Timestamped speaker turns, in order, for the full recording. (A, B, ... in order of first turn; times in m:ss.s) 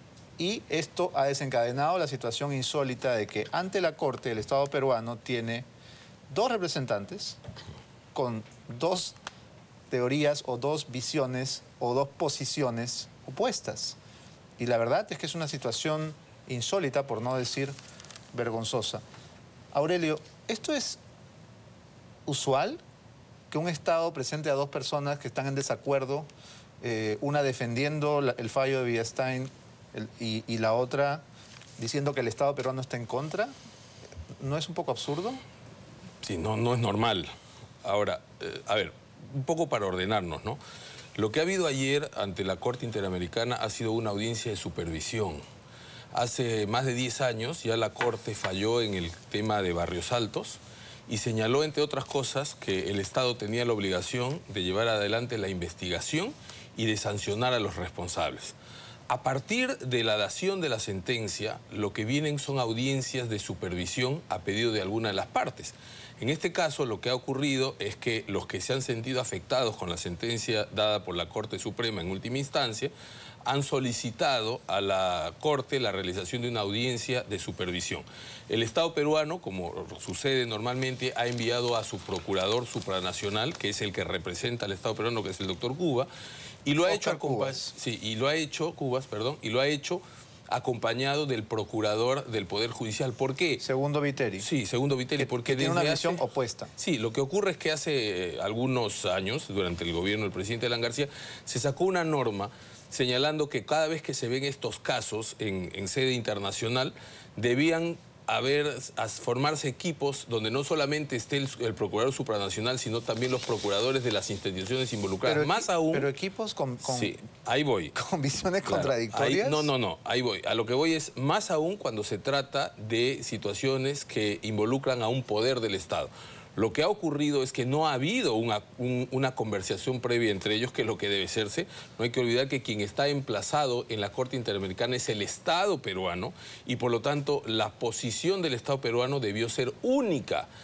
0:00.4-0:05.7 A
0:06.3-0:07.4 A
0:08.1-0:09.2 A
0:09.9-0:14.0 A
0:14.6-0:17.7 A
0:18.3-0:19.0 A
0:19.7-0:21.0 A
0:22.2-0:22.8 A
0:23.5-0:26.3 A
0:26.8-0:31.2 A
0:31.8-0:33.5 A
0:34.4-0:35.4 A
0:36.2-0:37.3 B
0:37.8-0:40.6 B
0:41.2-0:45.4 B
0:46.1-0:58.6 B
0:59.1-1:12.9 B
1:13.4-1:26.1 B
1:26.6-1:33.6 B
1:26.8-1:27.7 A
1:33.6-1:34.5 A
1:34.4-1:36.2 B
1:35.2-1:36.7 A
1:36.8-1:56.1 B
1:55.2-1:57.1 A
1:56.8-1:57.9 B
1:57.9-1:59.7 A
1:58.6-2:20.5 B